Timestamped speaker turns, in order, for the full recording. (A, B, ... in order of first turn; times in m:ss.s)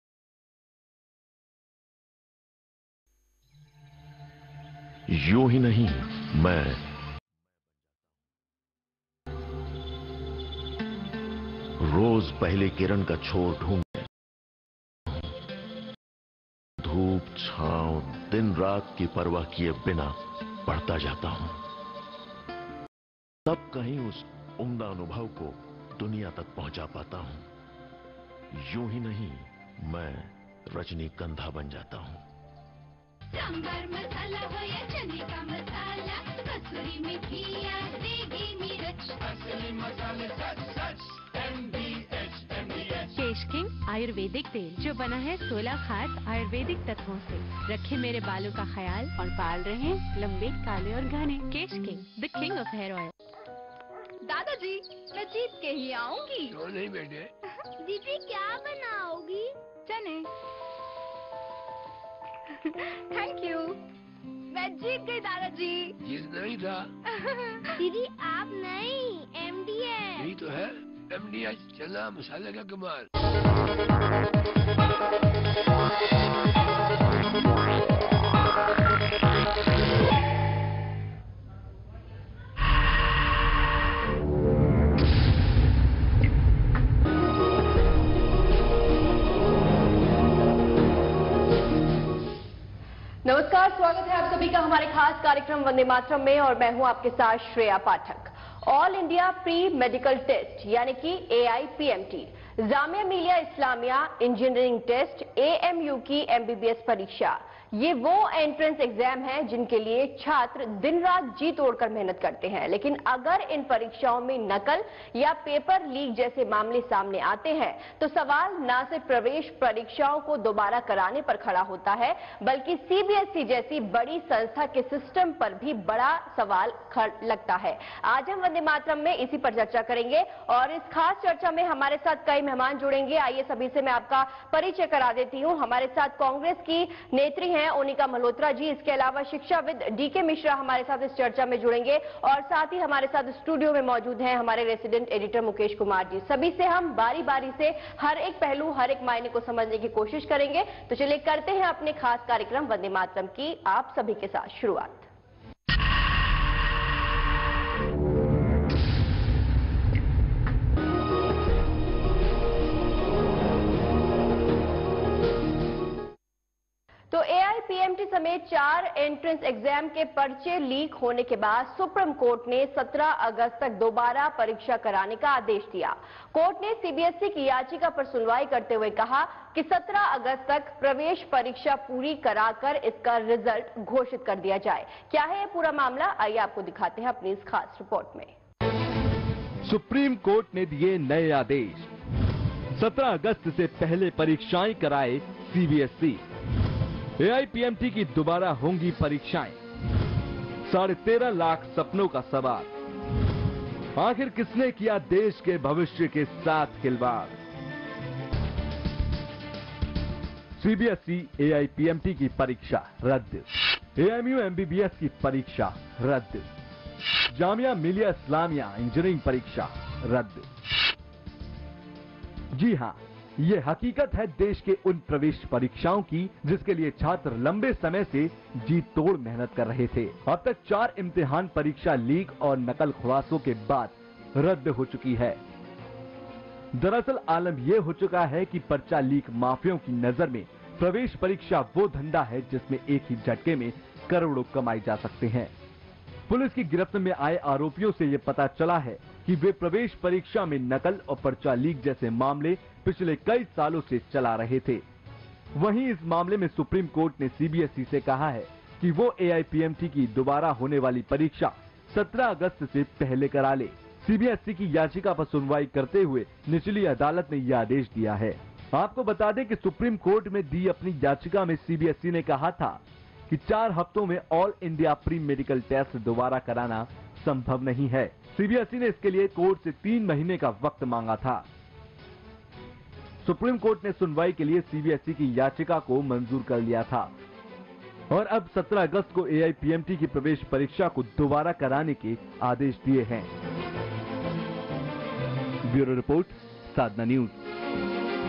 0:05.1-0:06.8 A
0:11.8-0:14.1 A
0:16.8-0:21.6 A
0:23.4-0:27.4 A
0:28.5-0:32.2 A
0:33.3-0:39.1 B
0:43.0-0:53.1 C
0:54.3-0:56.3 B
0:56.5-0:57.3 D
0:57.8-1:00.2 B
1:03.1-1:03.7 B
1:04.5-1:05.9 B
1:06.0-1:06.8 D
1:07.5-1:10.3 B
1:10.2-1:13.1 D
1:33.2-2:35.1 E
2:47.1-3:08.3 E
3:09.6-3:11.9 F
3:12.7-3:16.2 F
3:17.2-3:19.6 F
3:20.6-3:22.7 F
3:24.0-3:27.4 F
3:30.6-3:36.4 F
3:37.3-3:40.5 F
3:42.5-3:55.4 F
3:56.7-4:05.5 F
4:06.3-4:14.8 F
4:15.5-4:41.4 F
4:43.2-4:47.1 F
4:48.1-4:53.3 F
4:55.7-4:57.3 F